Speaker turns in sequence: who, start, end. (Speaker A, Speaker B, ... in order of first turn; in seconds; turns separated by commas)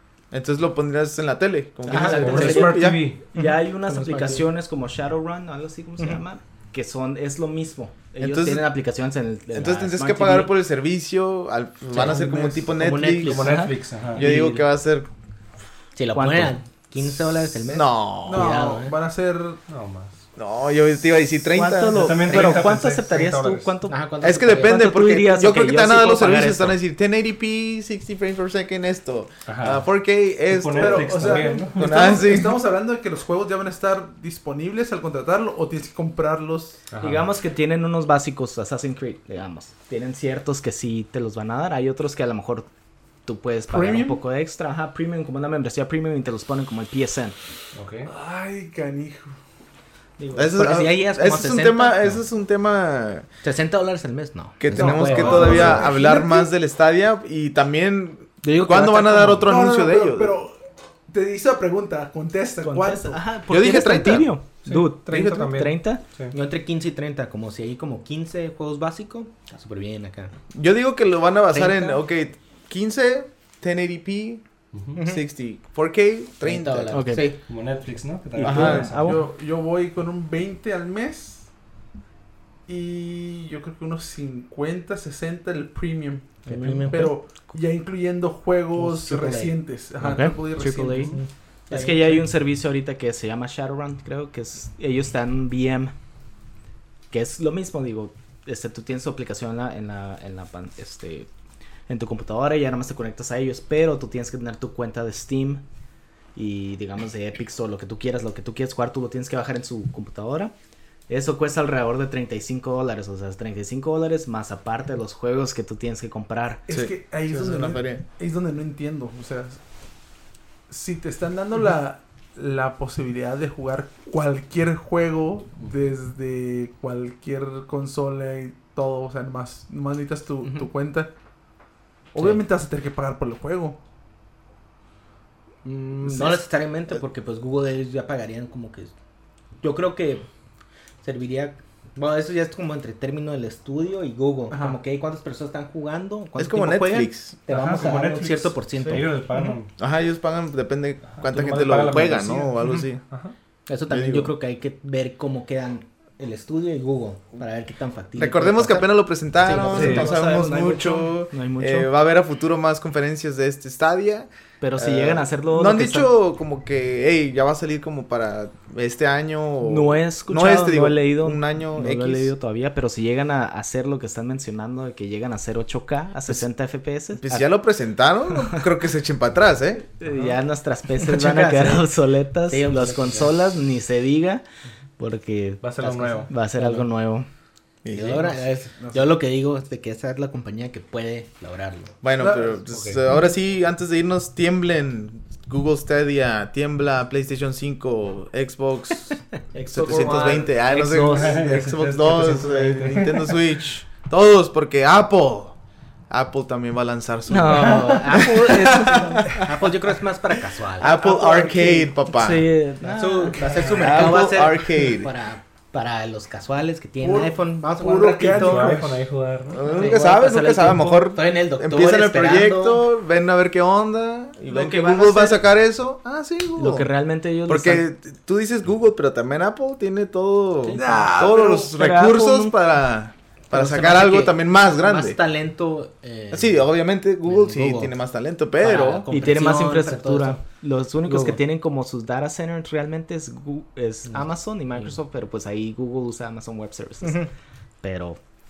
Speaker A: 0.3-3.0, Speaker B: 1.9-10.5, Speaker C: 1.9-4.5, Speaker D: 2.0-3.2, Speaker A: 8.2-8.7, Speaker A: 9.5-15.1, Speaker C: 11.9-13.7, Speaker D: 13.2-14.3, Speaker B: 13.4-14.7, Speaker C: 15.9-19.0, Speaker B: 16.1-16.6, Speaker A: 17.7-18.6, Speaker E: 18.2-19.6, Speaker D: 19.7-20.2, Speaker A: 20.4-22.3, Speaker B: 21.5-24.0, Speaker D: 21.9-23.7, Speaker C: 22.3-22.6, Speaker C: 23.9-24.9, Speaker A: 24.2-32.6, Speaker B: 24.5-26.8, Speaker D: 29.5-29.8, Speaker D: 30.5-31.9, Speaker E: 30.8-36.8, Speaker D: 36.9-37.3, Speaker B: 37.0-42.7, Speaker B: 43.3-47.4, Speaker E: 43.7-44.2, Speaker D: 47.7-48.1, Speaker E: 48.0-49.3, Speaker C: 50.3-52.0, Speaker A: 50.3-53.3, Speaker C: 53.4-55.8, Speaker A: 54.6-60.4, Speaker E: 54.7-56.5, Speaker C: 58.4-59.5, Speaker E: 59.5-60.5, Speaker E: 61.1-63.2, Speaker B: 62.6-66.0, Speaker A: 63.5-64.3, Speaker D: 64.6-66.3, Speaker C: 66.3-70.3, Speaker A: 70.5-77.0, Speaker C: 71.5-72.0, Speaker C: 74.9-75.2, Speaker C: 76.4-77.4, Speaker B: 76.9-77.3, Speaker D: 77.2-79.2, Speaker B: 78.3-79.3, Speaker A: 78.4-78.9, Speaker E: 79.0-81.5, Speaker E: 82.7-91.1, Speaker C: 86.5-87.2, Speaker B: 86.5-86.9, Speaker C: 88.7-89.6, Speaker B: 90.0-91.1, Speaker C: 91.1-92.2, Speaker B: 91.7-95.9, Speaker B: 97.1-101.3, Speaker B: 101.9-105.6, Speaker B: 106.3-110.5, Speaker B: 111.1-116.6, Speaker E: 116.7-119.6, Speaker A: 116.7-118.0, Speaker E: 120.7-131.1, Speaker E: 132.1-133.8, Speaker C: 135.6-138.9, Speaker E: 136.0-136.4, Speaker C: 139.6-140.2, Speaker C: 141.0-149.2, Speaker E: 144.5-144.8, Speaker A: 146.4-147.4, Speaker D: 147.5-149.7, Speaker A: 149.8-153.0, Speaker D: 151.1-153.3, Speaker C: 153.7-160.1, Speaker A: 153.9-154.3, Speaker A: 158.2-172.3, Speaker B: 159.6-161.9, Speaker D: 159.7-160.1, Speaker B: 164.6-166.1, Speaker B: 169.6-177.5, Speaker A: 177.1-179.9, Speaker B: 180.0-184.4, Speaker D: 180.1-180.4, Speaker C: 180.9-181.9, Speaker C: 182.5-183.4, Speaker B: 185.0-185.6, Speaker D: 185.6-186.3, Speaker C: 185.8-186.9, Speaker B: 186.3-187.3, Speaker A: 187.8-188.4, Speaker C: 187.9-191.9, Speaker A: 192.0-205.6, Speaker E: 192.2-192.6, Speaker D: 192.7-193.0, Speaker B: 199.5-201.6, Speaker C: 199.7-200.4, Speaker D: 201.1-203.4, Speaker A: 206.1-209.7, Speaker B: 207.3-209.3, Speaker C: 207.5-211.0, Speaker A: 210.8-212.5, Speaker E: 210.9-211.9, Speaker B: 212.1-213.8, Speaker C: 212.8-218.8, Speaker E: 213.4-213.9, Speaker A: 213.7-215.1, Speaker E: 217.0-219.1, Speaker D: 218.3-219.6, Speaker A: 219.5-226.9, Speaker B: 219.6-221.1, Speaker C: 219.7-220.0, Speaker C: 221.1-222.8, Speaker B: 224.4-225.4, Speaker B: 226.6-227.8, Speaker A: 227.5-235.2, Speaker C: 230.6-231.1, Speaker E: 230.7-231.7, Speaker B: 231.7-232.6, Speaker C: 233.5-236.7, Speaker A: 236.3-239.1, Speaker C: 237.2-238.0, Speaker C: 238.6-240.4, Speaker B: 239.1-247.3, Speaker C: 241.1-241.4, Speaker C: 244.1-244.9, Speaker C: 247.0-247.3, Speaker B: 247.8-248.2